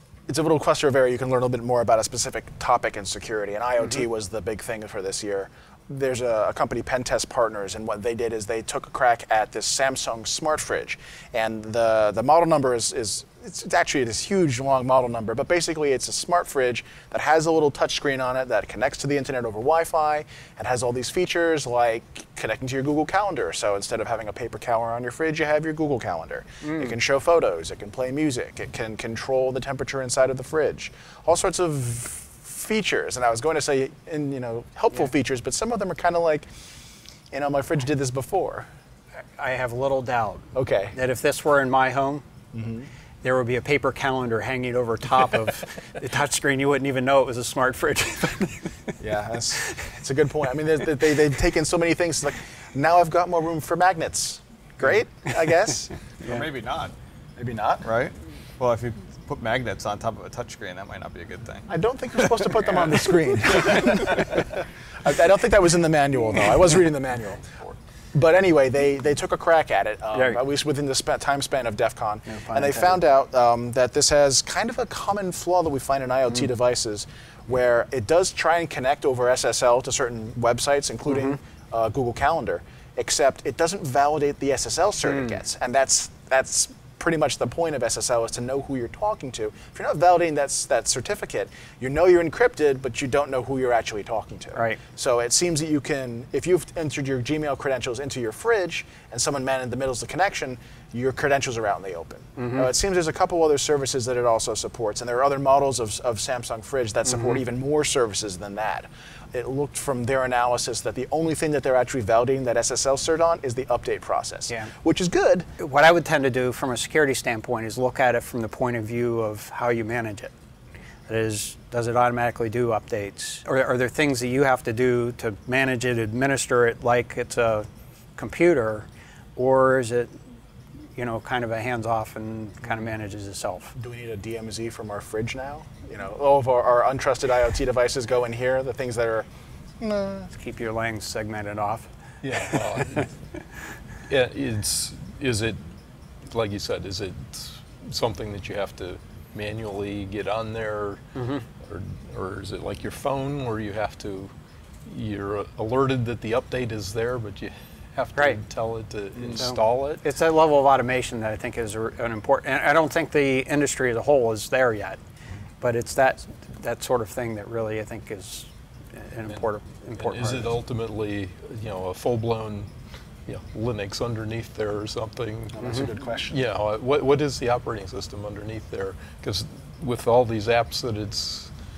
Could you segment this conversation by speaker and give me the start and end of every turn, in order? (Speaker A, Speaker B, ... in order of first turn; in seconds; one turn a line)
Speaker A: 0.3-36.5
Speaker B: 26.6-26.9
Speaker A: 37.3-38.7
Speaker B: 39.4-42.2
Speaker A: 40.5-41.0
Speaker A: 42.5-42.9
Speaker B: 43.2-48.9
Speaker A: 49.0-55.9
Speaker C: 56.2-56.9
Speaker A: 57.4-57.9
Speaker C: 57.8-61.7
Speaker A: 61.7-115.5
Speaker B: 70.1-70.4
Speaker B: 72.3-73.0
Speaker B: 94.5-94.8
Speaker B: 102.4-102.7
Speaker B: 107.1-107.3
Speaker B: 115.6-120.3
Speaker B: 121.1-127.7
Speaker B: 128.2-130.1
Speaker B: 130.9-133.7
Speaker A: 133.7-139.3
Speaker A: 139.8-140.3
Speaker B: 140.3-143.0
Speaker D: 142.2-143.1
Speaker D: 144.1-145.6
Speaker D: 146.3-154.3
Speaker B: 151.2-151.4
Speaker D: 154.8-160.0
Speaker B: 158.1-158.4
Speaker B: 159.2-165.0
Speaker B: 165.6-170.6
Speaker D: 170.0-172.7
Speaker D: 173.2-181.5
Speaker A: 175.5-176.4